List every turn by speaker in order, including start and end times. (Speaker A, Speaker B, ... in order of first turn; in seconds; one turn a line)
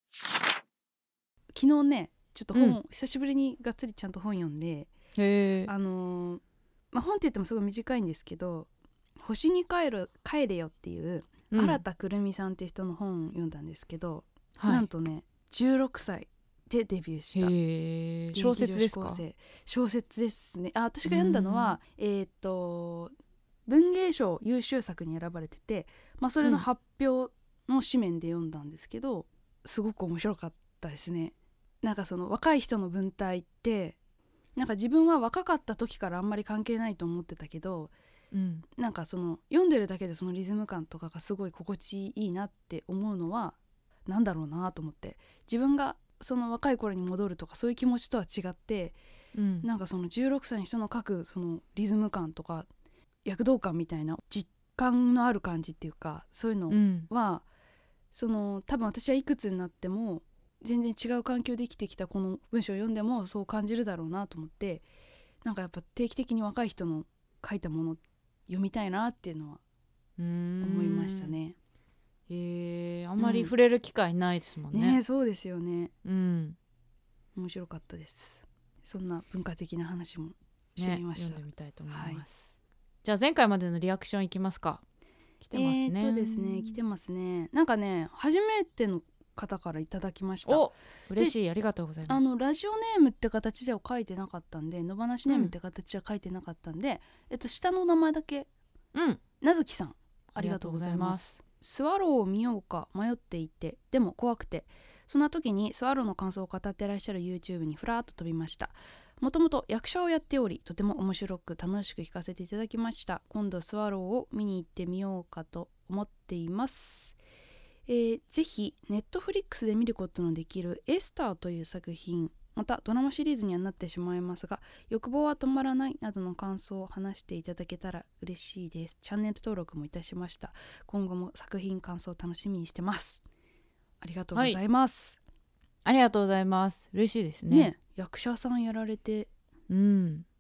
Speaker A: 1.5-4.9
Speaker B: 2.5-2.8
Speaker B: 5.2-5.7
Speaker A: 5.7-17.5
Speaker B: 11.5-11.8
Speaker B: 14.6-14.9
Speaker B: 17.3-19.2
Speaker A: 18.3-23.1
Speaker B: 21.0-21.8
Speaker A: 23.6-34.0
Speaker A: 34.5-37.9
Speaker B: 38.3-38.6
Speaker A: 38.7-49.0
Speaker B: 49.3-49.7
Speaker A: 49.6-52.7
Speaker A: 53.2-57.5
Speaker B: 56.7-57.1
Speaker A: 58.1-64.8
Speaker A: 65.4-69.6
Speaker B: 70.2-71.3
Speaker A: 70.6-71.5
Speaker B: 72.3-75.0
Speaker A: 73.2-73.5
Speaker A: 74.7-75.9
Speaker B: 76.0-76.6
Speaker A: 77.3-82.2
Speaker B: 80.8-84.8
Speaker B: 85.4-86.8
Speaker A: 85.5-91.3
Speaker B: 90.5-92.2
Speaker A: 92.1-98.5
Speaker B: 95.3-95.5
Speaker B: 98.9-99.2
Speaker A: 99.4-117.2
Speaker B: 100.3-101.4
Speaker A: 117.9-133.2
Speaker A: 134.0-135.2
Speaker B: 134.3-134.6
Speaker B: 135.8-137.7
Speaker A: 137.5-139.3
Speaker B: 139.7-140.2